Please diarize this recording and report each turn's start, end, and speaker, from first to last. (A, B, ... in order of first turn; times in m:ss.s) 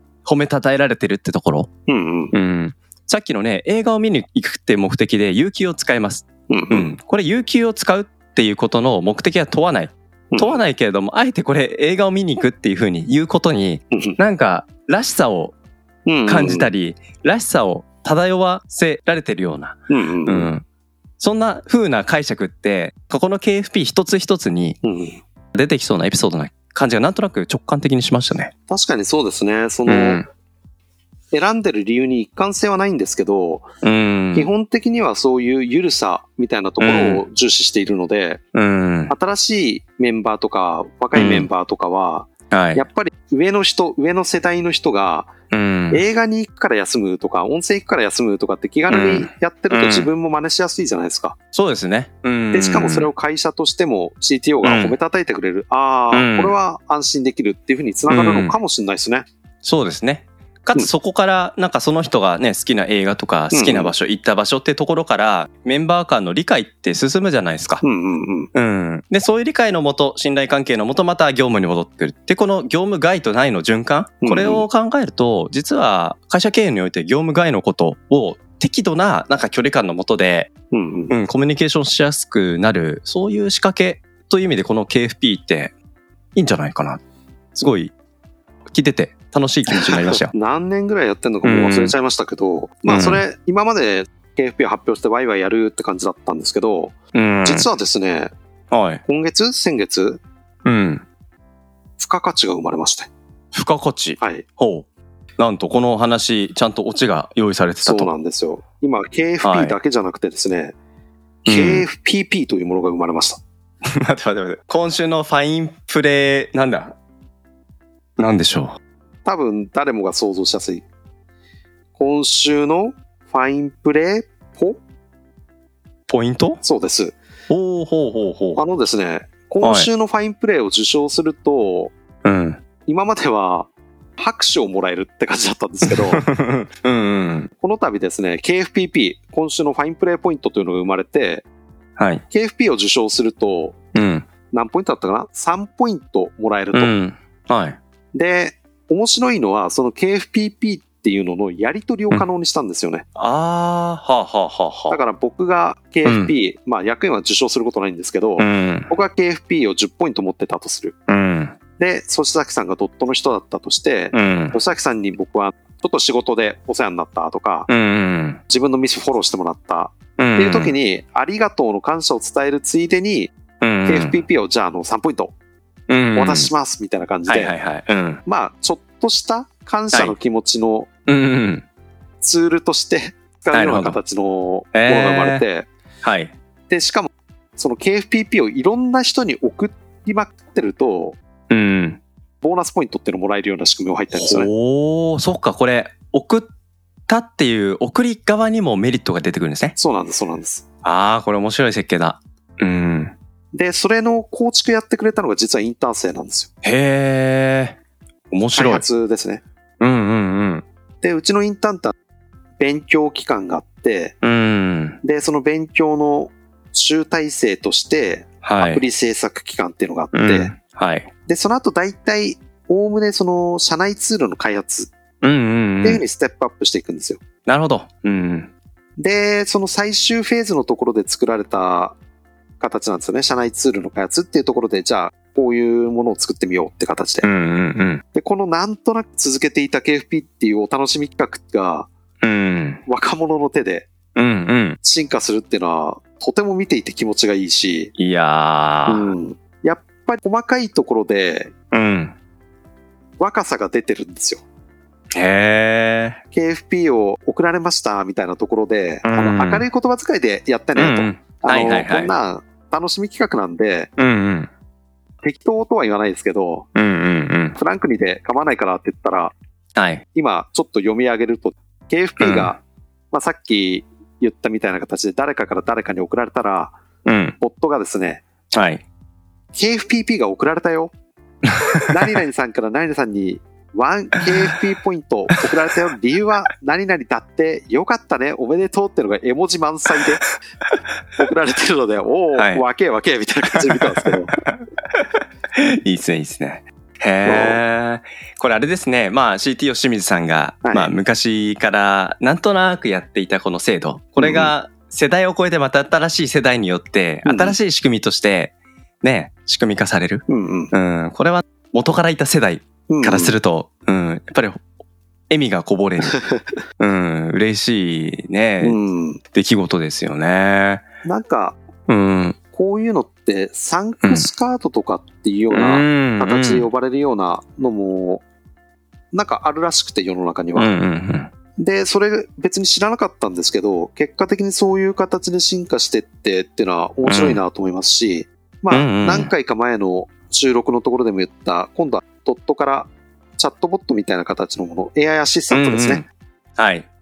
0:00.2-0:01.7 A
0:01.9-0:02.3 B
0:02.3-0:15.6 A
0:06.5-0:06.9 B
0:10.3-0:10.6 B
0:13.9-0:14.2 B
0:16.0-0:16.7 B
0:16.3-0:20.6 A
0:19.9-0:20.5 B
0:21.2-0:24.8 A
0:24.8-0:25.2 B
0:25.5-0:28.5 A
0:28.7-0:30.2 B
0:29.9-0:30.2 A
0:31.3-0:33.7 B
0:33.8-0:34.5 A
0:34.3-0:38.4 B
0:36.8-0:37.2 A
0:38.5-0:39.1 A
0:39.1-0:45.3 B
0:41.1-0:41.5 A
0:42.5-0:42.8 A
0:45.5-0:46.0 A
0:45.9-0:51.4 B
0:48.9-0:50.1 A
0:51.5-0:53.1 A
0:52.5-0:59.3 B
0:54.6-0:55.0 A
0:56.1-0:56.6 A
0:58.1-0:58.6 A
0:59.6-1:07.8 A
1:03.5-1:03.9 B
1:07.8-1:08.5 B
1:08.5-1:20.5 A
1:14.2-1:14.6 B
1:20.7-1:21.1 B
1:21.1-1:25.7 A
1:26.3-1:27.0 A
1:27.5-1:27.9 A
1:28.7-1:30.3 A
1:29.7-1:38.3 B
1:31.4-1:31.9 A
1:32.9-1:33.2 A
1:37.1-1:37.7 A
1:38.7-1:39.0 A
1:39.0-1:40.2 B
1:40.6-1:41.0 A
1:42.0-1:43.1 B
1:43.5-1:44.8 A
1:44.2-1:44.4 B
1:45.4-1:48.1 A
1:47.8-1:50.7 B
1:49.4-1:49.8 A
1:51.4-1:53.4 B
1:51.4-1:51.8 A
1:54.0-1:57.0 A
1:58.2-1:58.8 A
1:59.2-2:00.8 B
2:02.0-2:04.8 B
2:06.1-2:06.6 A
2:06.6-2:07.2 B
2:07.5-2:08.6 A
2:08.6-2:11.9 B
2:09.6-2:09.9 A
2:12.2-2:12.6 A
2:12.8-2:16.2 B
2:15.8-2:17.5 A
2:17.6-2:21.4 B
2:22.0-2:22.2 A
2:22.3-2:23.8 B
2:23.9-2:24.2 A
2:24.5-2:26.9 B
2:26.7-2:27.8 A
2:28.1-2:33.0 B
2:33.2-2:35.0 A
2:34.9-2:40.9 B
2:36.0-2:36.3 A
2:38.4-2:38.9 A
2:41.1-2:41.5 A
2:41.8-2:47.7 B
2:44.1-2:44.6 A
2:47.7-2:48.4 A
2:48.5-2:53.3 B
2:50.2-2:50.7 A
2:53.6-2:54.2 A
2:53.9-2:55.3 B
2:55.9-2:56.5 A
2:56.1-2:57.5 B
2:57.2-2:58.2 A
2:58.2-3:00.9 B
3:01.1-3:01.6 A
3:02.2-3:05.7 B
3:03.5-3:04.0 A
3:04.7-3:05.4 A
3:06.0-3:06.3 A
3:06.7-3:11.2 B
3:11.5-3:12.0 A
3:12.4-3:14.5 B
3:14.1-3:16.5 A
3:17.1-3:19.8 A
3:19.8-3:20.6 B
3:20.8-3:23.1 A
3:23.5-3:26.5 B
3:26.6-3:27.8 A
3:28.3-3:28.8 A
3:28.5-3:29.4 B
3:29.8-3:30.6 A
3:31.0-3:31.9 B
3:32.6-3:34.2 B
3:34.2-3:35.0 A
3:35.0-3:40.5 B
3:38.4-3:38.8 A
3:40.1-3:41.1 A
3:41.3-3:44.9 B
3:45.2-3:46.0 A
3:45.8-3:47.2 B
3:47.4-3:48.5 A
3:49.0-3:52.0 B
3:52.6-3:57.3 B
3:57.2-3:58.0 A
3:58.1-4:01.9 B
4:02.2-4:02.8 A
4:02.8-4:03.9 B
4:04.1-4:04.8 A
4:04.8-4:07.9 B
4:08.0-4:09.1 A
4:08.9-4:11.5 B
4:11.7-4:12.1 A
4:13.2-4:14.4 B
4:15.1-4:16.2 A
4:16.3-4:23.9 B
4:19.0-4:19.6 A
4:20.8-4:22.1 A
4:24.0-4:24.5 A
4:25.2-4:26.7 B
4:26.7-4:27.6 A
4:27.5-4:29.3 B
4:29.8-4:30.0 A
4:30.1-4:36.8 B
4:32.2-4:32.5 A
4:37.0-4:37.4 A
4:37.4-4:38.2 B
4:38.5-4:38.8 A
4:39.5-4:40.9 B
4:41.4-4:42.1 A
4:41.9-4:50.2 B
4:51.2-4:54.3 B
4:52.3-4:52.6 A
4:53.5-5:14.6 A
4:57.2-4:57.6 B
5:00.6-5:00.9 B
5:04.2-5:04.5 B
5:07.2-5:07.6 B
5:10.3-5:10.7 B
5:12.9-5:13.3 B
5:15.3-5:16.2 A
5:16.0-5:16.5 B
5:16.8-5:18.8 A
5:18.6-5:19.2 B
5:19.3-5:20.8 A
5:21.0-5:21.6 B
5:21.9-5:22.4 A
5:22.5-5:28.2 B
5:24.0-5:24.3 A
5:25.5-5:26.7 A
5:29.1-5:30.7 B
5:30.5-5:31.3 A
5:31.6-5:46.0 B
5:37.0-5:37.4 A
5:38.7-5:39.3 A
5:45.5-5:46.9 A